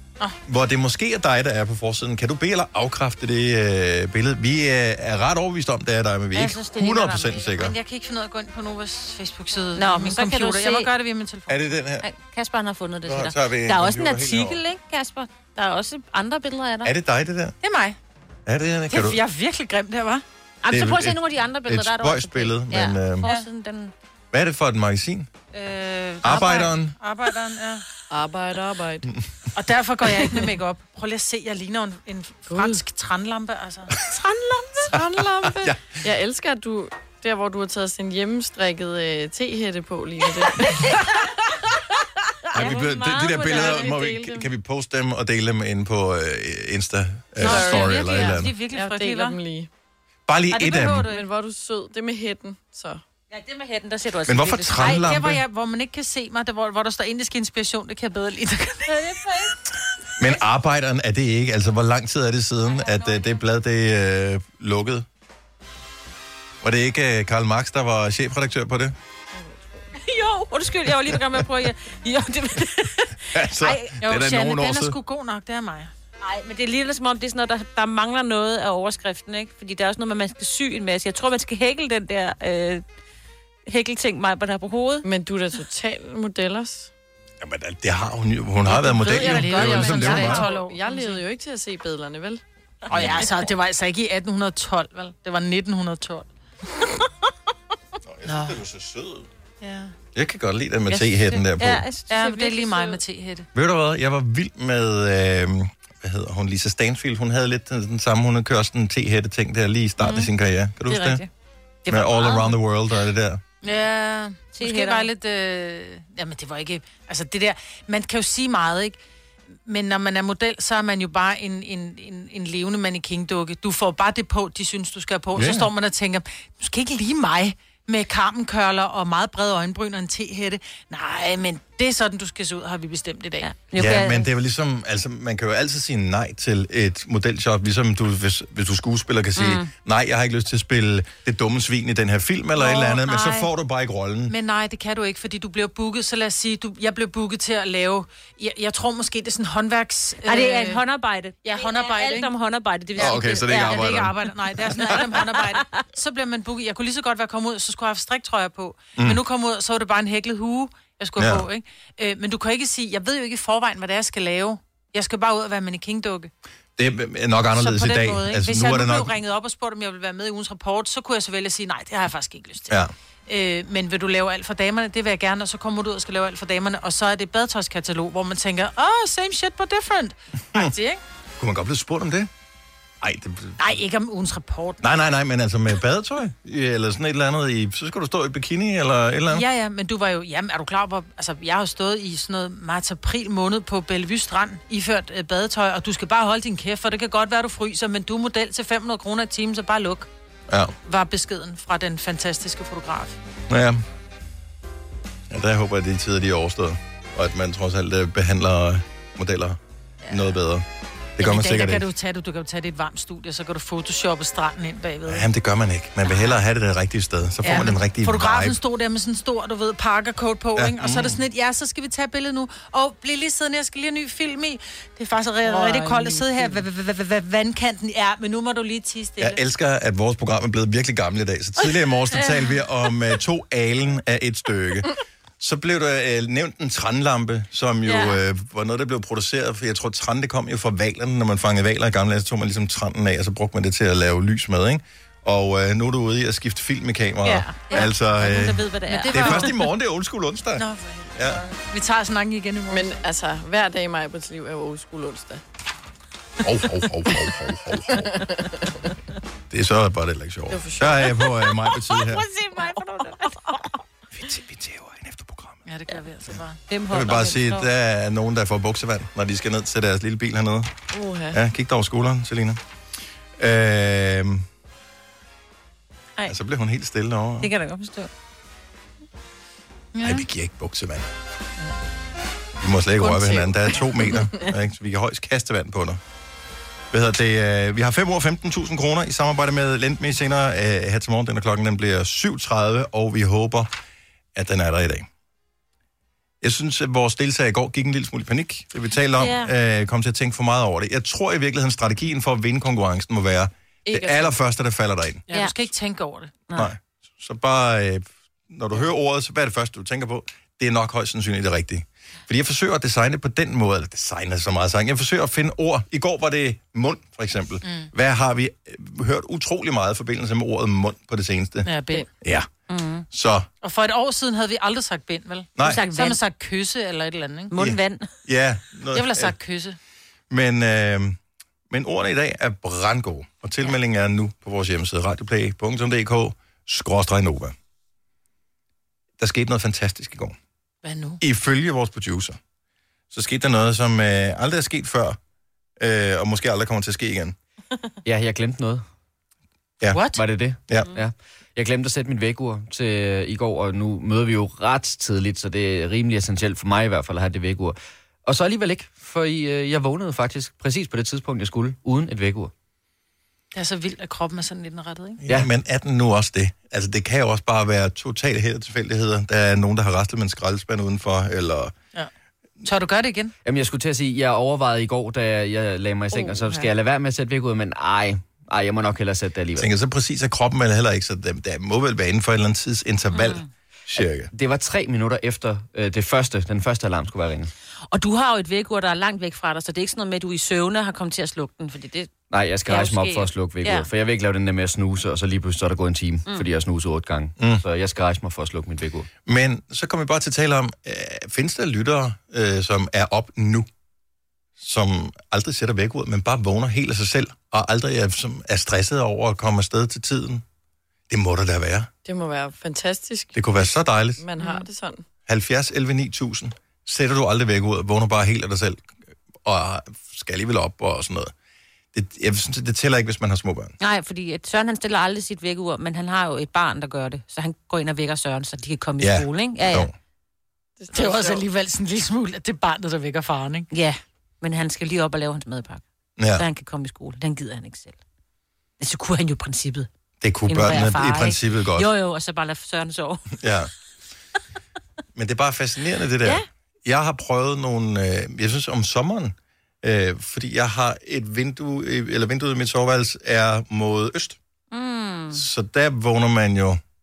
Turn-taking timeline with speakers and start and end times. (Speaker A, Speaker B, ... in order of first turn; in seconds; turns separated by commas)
Speaker A: 0.5-7.8, Speaker B: 6.3-7.6, Speaker C: 7.5-11.7, Speaker B: 9.8-10.9, Speaker A: 11.5-12.1, Speaker B: 12.0-16.9, Speaker A: 13.1-14.6, Speaker A: 16.8-17.6, Speaker C: 17.6-18.0, Speaker A: 18.5-19.2, Speaker C: 18.9-20.2, Speaker B: 20.6-23.9, Speaker A: 20.7-23.3, Speaker A: 24.3-25.3, Speaker C: 25.5-27.9, Speaker A: 26.2-27.0, Speaker D: 28.1-29.1, Speaker C: 29.5-34.1, Speaker D: 32.5-32.8, Speaker D: 34.9-41.0, Speaker A: 34.9-36.0, Speaker B: 42.5-44.0, Speaker A: 42.5-48.5, Speaker D: 43.5-44.4, Speaker C: 47.4-49.4, Speaker D: 47.4-49.7, Speaker A: 50.3-51.1, Speaker C: 50.5-51.2, Speaker D: 51.0-53.0, Speaker B: 53.3-55.0, Speaker A: 54.3-55.4, Speaker C: 54.8-59.0, Speaker B: 58.9-59.6, Speaker A: 60.2-65.1, Speaker B: 62.7-63.4, Speaker A: 66.6-69.0, Speaker D: 69.3-69.9, Speaker B: 70.0-73.9, Speaker A: 73.3-75.0, Speaker C: 74.0-75.9, Speaker B: 76.2-82.8, Speaker B: 83.7-85.1, Speaker D: 85.0-86.9, Speaker A: 87.4-90.5, Speaker C: 88.7-91.2, Speaker D: 89.0-92.4, Speaker C: 92.9-96.3, Speaker A: 98.0-99.3, Speaker C: 98.2-98.6, Speaker C: 99.6-100.0, Speaker A: 100.1-101.8, Speaker B: 100.9-103.0, Speaker C: 102.1-103.5, Speaker A: 103.5-111.2, Speaker B: 110.0-110.3, Speaker B: 110.9-111.2, Speaker B: 111.9-112.6, Speaker A: 111.9-113.4, Speaker C: 113.6-119.0, Speaker B: 114.5-115.1, Speaker C: 119.7-133.5, Speaker A: 125.3-125.7, Speaker B: 133.4-134.3, Speaker A: 133.8-144.3, Speaker B: 139.4-139.7, Speaker C: 142.6-143.5, Speaker C: 144.3-150.8, Speaker B: 150.2-154.0, Speaker C: 151.4-152.3, Speaker A: 153.0-154.2, Speaker C: 153.0-166.3, Speaker B: 154.8-155.6, Speaker A: 159.0-159.2, Speaker A: 161.2-161.5, Speaker A: 166.8-169.2, Speaker C: 167.5-172.8, Speaker C: 173.3-181.0, Speaker A: 181.4-182.3, Speaker A: 183.0-183.7, Speaker C: 183.6-184.8, Speaker A: 184.8-189.5, Speaker C: 189.3-200.1, Speaker A: 200.5-200.7, Speaker C: 200.8-203.2, Speaker A: 203.5-203.8, Speaker A: 205.3-210.7, Speaker C: 210.1-210.3, Speaker A: 211.2-211.9, Speaker C: 211.2-215.3, Speaker A: 215.1-218.6, Speaker C: 216.1-216.3, Speaker C: 217.4-229.4, Speaker A: 220.6-221.2, Speaker B: 225.5-226.6, Speaker A: 229.2-251.4, Speaker B: 232.1-232.5, Speaker B: 237.9-238.2, Speaker B: 247.2-249.5, Speaker C: 248.9-249.7, Speaker C: 250.6-253.0, Speaker D: 252.7-255.4, Speaker A: 256.4-258.3, Speaker D: 257.9-258.7, Speaker A: 259.5-262.3, Speaker D: 260.5-261.2, Speaker B: 261.6-263.7, Speaker C: 263.2-263.6, Speaker A: 264.1-265.6, Speaker C: 265.7-266.6, Speaker B: 266.7-267.7, Speaker A: 266.9-270.7, Speaker D: 270.9-271.4, Speaker A: 271.3-272.6, Speaker A: 273.4-274.4, Speaker A: 276.3-277.5, Speaker B: 277.4-278.1, Speaker C: 279.9-280.3, Speaker A: 280.0-281.1, Speaker A: 282.6-286.0, Speaker D: 283.0-284.4, Speaker A: 286.9-293.7, Speaker A: 294.4-295.1, Speaker A: 296.4-305.2, Speaker B: 299.2-299.5, Speaker D: 303.9-304.4, Speaker C: 305.3-306.4, Speaker A: 306.5-321.7, Speaker C: 317.6-317.9, Speaker C: 321.6-322.1, Speaker A: 322.2-322.5, Speaker B: 322.7-323.1, Speaker A: 323.1-323.5, Speaker C: 323.6-327.5, Speaker A: 325.6-325.9, Speaker B: 325.6-326.2, Speaker B: 327.5-328.1, Speaker A: 327.6-329.4, Speaker C: 328.9-329.8, Speaker A: 330.3-331.2, Speaker A: 331.7-337.6, Speaker A: 339.2-340.4, Speaker C: 340.8-341.2, Speaker A: 341.2-342.4, Speaker A: 343.1-345.2, Speaker A: 345.8-347.4, Speaker E: 348.1-348.9, Speaker A: 349.8-350.1, Speaker C: 349.9-350.2, Speaker E: 350.1-362.5, Speaker B: 350.8-351.0, Speaker C: 363.5-365.2, Speaker A: 365.2-371.7, Speaker C: 372.6-373.3, Speaker E: 373.4-379.7, Speaker D: 376.1-376.7, Speaker A: 379.6-384.3, Speaker B: 383.1-383.5, Speaker E: 384.3-387.5, Speaker B: 387.9-393.9, Speaker E: 392.3-399.1, Speaker A: 399.3-403.7, Speaker A: 404.6-410.4, Speaker A: 411.1-411.9, Speaker D: 412.1-413.4, Speaker A: 413.4-414.2, Speaker D: 414.2-415.1, Speaker A: 415.3-418.9, Speaker A: 419.4-421.3, Speaker A: 421.9-423.8, Speaker B: 423.8-429.9, Speaker A: 429.0-429.9, Speaker D: 430.8-431.4, Speaker C: 430.9-433.7, Speaker B: 433.7-435.8, Speaker A: 436.2-436.4, Speaker B: 436.3-438.0, Speaker B: 438.8-439.9, Speaker A: 440.2-441.9, Speaker B: 440.5-443.4, Speaker A: 443.4-443.7, Speaker A: 445.2-454.4, Speaker B: 454.7-455.4, Speaker A: 455.3-456.8